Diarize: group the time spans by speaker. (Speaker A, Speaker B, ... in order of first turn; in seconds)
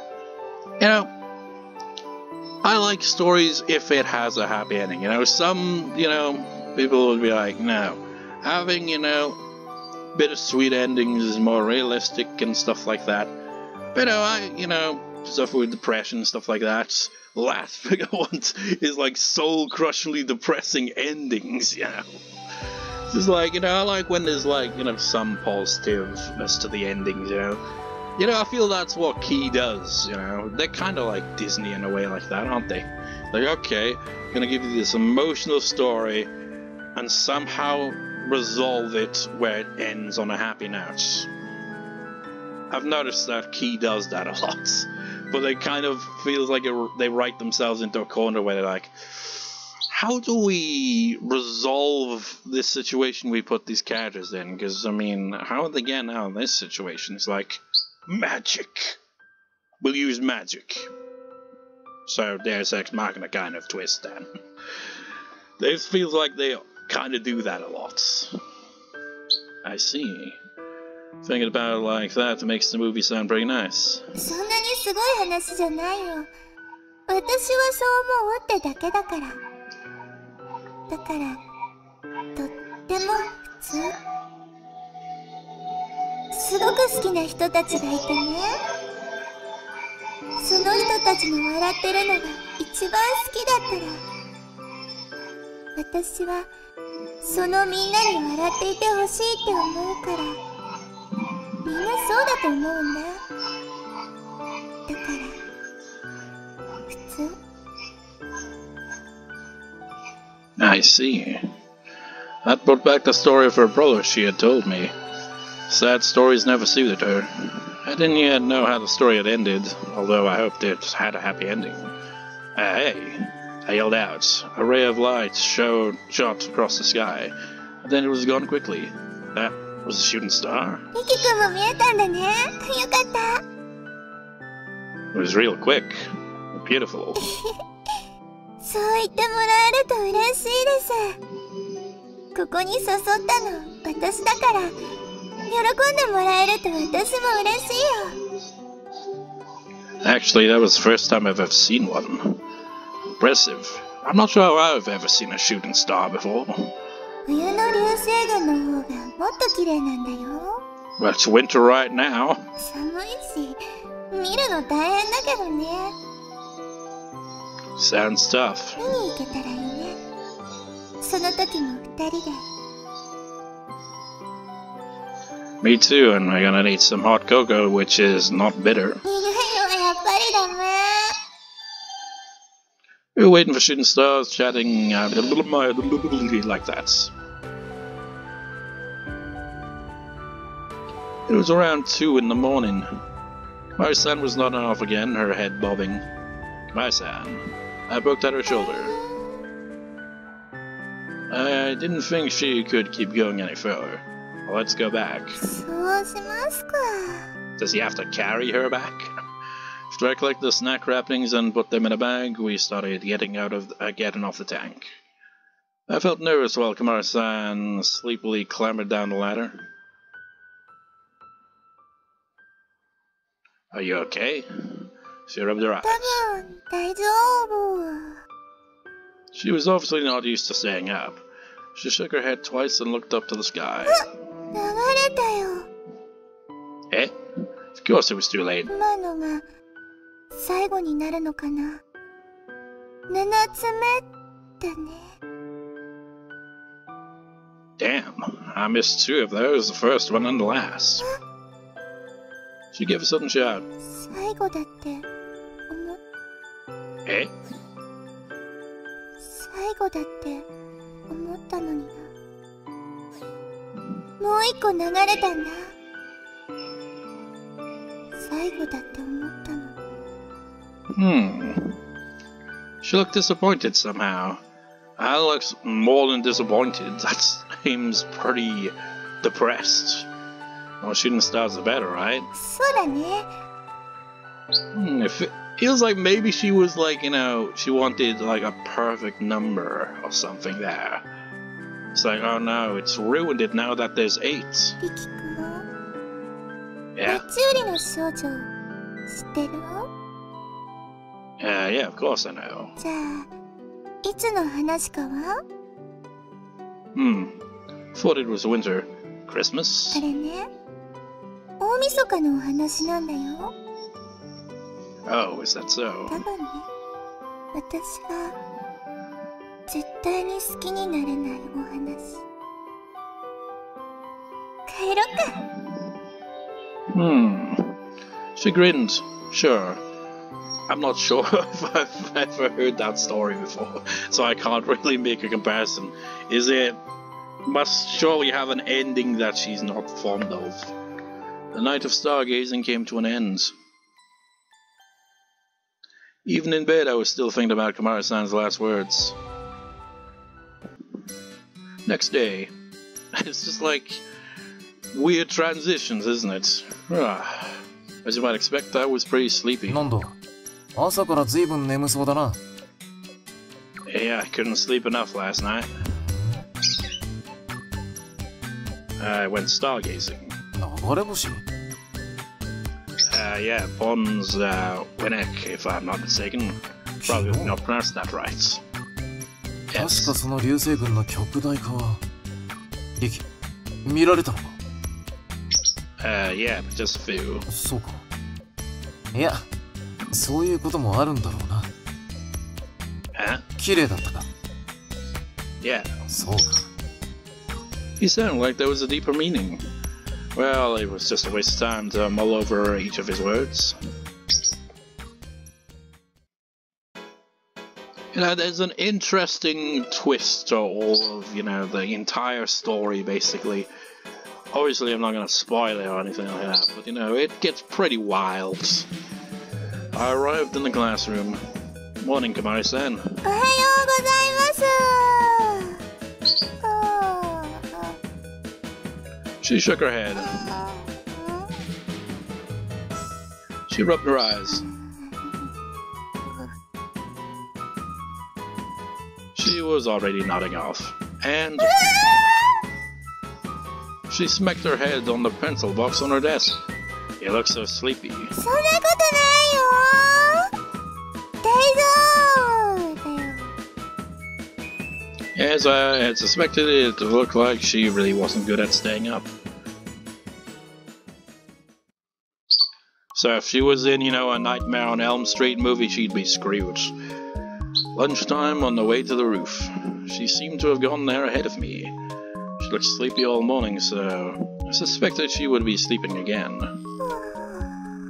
Speaker A: 0.8-1.1, 2.6-9.4, 10.1-13.3, 13.9-22.0, 23.1-27.6, 28.2-36.3, 37.0-41.3, 42.7-59.0, 59.8-60.9, 62.0-64.2, 65.6-68.3, 69.6-70.4, 71.2-74.1, 110.6-111.5, 112.4-114.9, 115.7-121.9, 122.5-130.9, 135.1-136.1, 136.6-137.2, 150.0-152.4, 153.1-156.7, 161.0-162.4, 167.8-168.8, 175.6-179.0, 183.2-187.1, 191.3-192.9, 193.8-196.0, 196.7-199.0, 201.3-205.4, 207.6-209.2, 209.9-214.9, 215.9-219.6, 223.7-226.2, 229.3-231.2, 231.7-234.0, 237.7-238.7, 247.8-251.1, 252.7-253.7, 257.1-257.3, 270.9-271.8, 272.8-274.4, 275.0-280.1, 280.8-282.3, 284.7-291.0, 291.9-294.8, 296.9-297.2, 301.4-302.7, 306.9-307.4, 307.9-310.0, 315.1-316.2, 326.9-327.8, 328.4-329.8, 330.7-336.8, 337.4-340.7, 341.5-343.5, 346.2-349.1, 351.9-352.5, 353.1-354.0, 354.9-359.8, 363.9-365.7, 369.0-370.4, 373.1-378.6, 379.7-380.1, 386.0-387.4, 393.1-393.4, 395.6-395.9, 398.0-399.6, 400.4-403.8, 408.1-413.7, 414.5-418.9, 419.9-421.4, 422.0-423.2, 429.4-430.4, 433.7-434.7, 439.3-441.8, 444.1-446.6, 447.2-448.3, 455.4-459.3, 463.1-466.9, 467.9-471.9, 472.6-476.7
Speaker B: 74.2-76.3, 77.1-79.4, 80.9-81.4, 82.3-83.9, 86.3-88.6, 90.4-94.0, 95.7-96.5, 97.2-100.4, 101.6-103.2, 104.9-105.4, 106.9-107.4, 130.9-133.4, 137.2-138.0, 138.6-141.2, 142.3-144.7, 145.5-148.2, 157.2-160.6, 162.6-165.9, 168.8-170.0, 171.0-172.5, 179.0-181.2, 198.6-199.4, 205.4-207.3, 225.8-228.2, 233.9-235.7, 238.7-239.4, 240.3-241.8, 243.1-244.1, 244.6-245.2, 253.8-255.1, 255.7-256.0, 259.2-260.4, 261.1-262.1, 264.2-265.7, 268.1-269.8, 282.4-283.3, 294.8-295.6, 297.1-298.5, 299.1-299.9, 302.8-303.3, 304.0-305.4, 309.9-310.5, 311.6-313.5, 316.1-316.7, 317.5-318.4, 319.7-322.2, 324.7-325.4, 423.2-425.8, 426.6-428.0, 430.2-431.6, 434.5-435.5, 436.3-436.5, 441.7-442.4, 448.4-450.5, 451.4-453.6, 477.0-477.9
Speaker C: 359.7-360.1, 360.7-362.4, 365.8-366.4, 370.5-371.4, 377.0-377.5, 379.8-382.0, 383.0-383.2, 383.9-384.6, 387.5-388.0, 389.1-389.4, 390.1-391.7, 393.6-394.3, 396.1-396.7